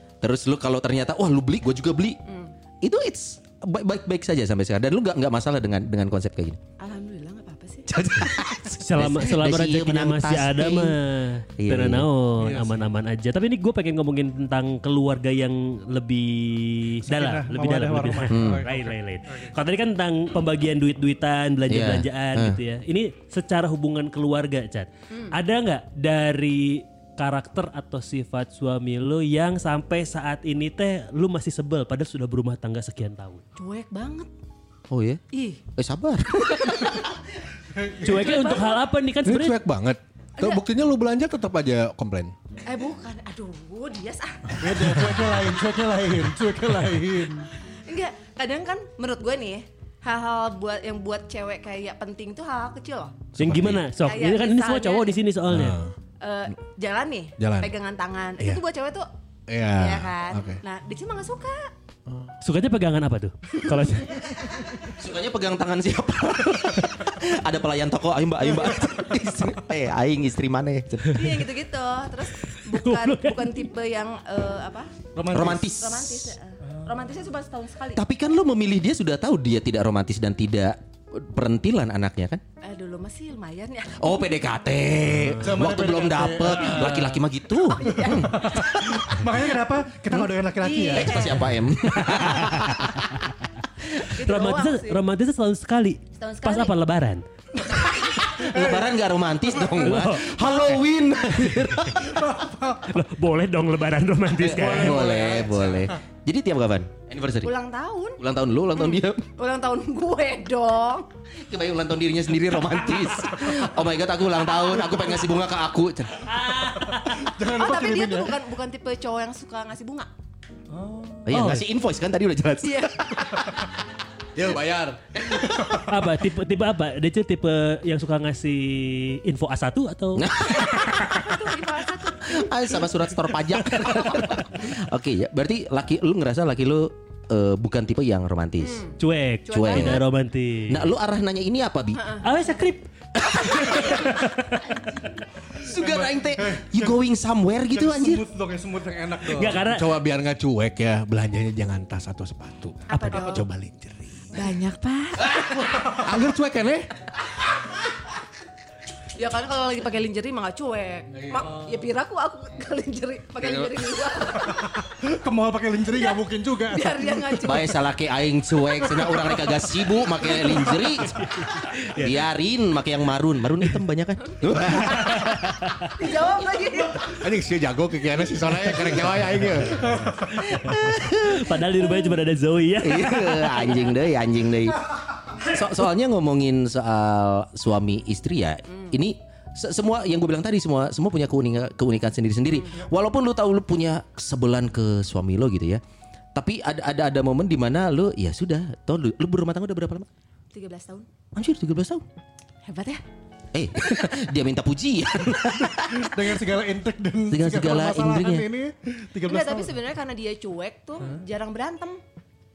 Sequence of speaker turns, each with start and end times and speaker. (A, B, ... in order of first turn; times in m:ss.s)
0:00.2-0:02.2 A
0:02.2-0:02.5 B
0:02.8-0:06.6 A
0:06.8-0:07.9 B
0:07.9-0:10.9 A
0:08.8-0:33.4 C
0:11.6-0:12.0 A
0:12.4-0:12.8 D
0:17.0-0:19.5 D
0:18.3-0:18.6 A
0:21.7-0:22.6 A
0:33.6-0:34.3 B
0:34.9-0:35.2 A
0:35.3-0:35.6 B
0:35.7-0:37.1 A
0:36.4-0:37.0 B
0:37.7-0:38.5 D
0:38.0-0:39.6 C
0:38.1-0:38.8 B
0:39.2-0:42.3 E
0:40.4-0:40.6 B
0:42.6-0:44.8 B
0:44.6-0:47.5 D
0:47.8-0:53.3 B
0:53.3-0:53.8 E
0:53.4-0:55.8 C
0:54.0-0:55.2 B
0:55.5-0:55.9 E
0:56.2-0:59.1 B
0:57.4-0:57.7 E
0:59.5-1:00.6 E
0:59.7-1:01.7 B
1:02.4-1:04.3 C
1:03.7-1:04.9 B
1:04.3-1:11.2 A
1:11.0-1:14.9 B
1:12.4-1:13.6 C
1:15.1-1:15.7 D
1:15.3-1:16.3 A
1:15.7-1:18.0 B
1:17.9-1:22.4 A
1:22.6-1:24.1 B
1:24.0-1:29.3 A
1:25.2-1:25.6 C
1:25.4-1:27.2 D
1:27.7-1:28.5 B
1:27.8-1:31.4 D
1:30.6-1:31.6 B
1:30.9-1:33.1 A
1:32.2-1:32.7 B
1:33.9-1:35.0 B
1:34.2-1:37.2 C
1:36.1-1:36.8 B
1:37.7-1:38.9 D
1:38.1-1:42.2 A
1:39.8-1:40.5 C
1:42.0-1:42.9 D
1:42.8-1:45.2 C
1:44.4-1:47.5 A
1:44.6-1:45.9 D
1:47.4-1:48.2 B
1:48.2-1:49.3 A
1:48.7-1:51.1 B
1:51.4-1:56.3 A
1:56.2-1:57.3 C
1:56.9-1:58.4 D
1:57.5-2:00.1 B
2:00.7-2:01.3 D
2:01.2-2:03.6 A
2:01.3-2:01.6 C
2:02.6-2:03.5 B
2:04.3-2:05.1 E
2:05.3-2:05.9 D
2:05.9-2:10.3 C
2:10.2-2:11.2 A
2:10.5-2:12.7 B
2:12.2-2:18.9 A
2:13.8-2:14.4 B
2:18.6-2:19.0 B
2:19.0-2:20.9 C
2:19.5-2:20.0 B
2:19.5-2:20.0 A
2:20.7-2:22.0 A
2:21.9-2:22.7 B
2:22.2-2:24.7 C
2:23.2-2:24.1 A
2:25.6-2:28.2 A
2:25.7-2:26.9 D
2:27.7-2:29.7 D
2:29.3-2:29.9 C
2:29.7-2:34.5 E
2:32.9-2:33.4 B
2:32.9-2:33.4 C
2:33.1-2:33.4 D
2:34.3-2:35.4 B
2:35.5-2:36.1 D
2:35.8-2:36.9 E
2:39.0-2:44.8 B
2:41.2-2:41.5 E
2:44.8-2:47.6 D
2:46.7-2:47.8 B
2:47.4-2:51.3 A
2:48.9-2:50.9 D
2:51.1-2:52.2 C
2:52.0-2:55.4 A
2:54.7-2:55.3 B
2:54.8-2:55.9 C
2:55.9-2:57.2 B
2:57.1-3:00.0 E
2:59.8-3:00.6 D
3:00.3-3:03.7 C
3:00.4-3:01.5 A
3:02.8-3:04.8 A
3:03.6-3:03.9 B
3:05.4-3:15.8 A
3:16.4-3:20.1 A
3:20.5-3:21.1 B
3:21.3-3:22.0 A
3:22.6-3:23.0 B
3:23.5-3:26.3 A
3:23.8-3:24.1 B
3:25.6-3:29.8 D
3:27.3-3:28.4 A
3:29.2-3:32.0 B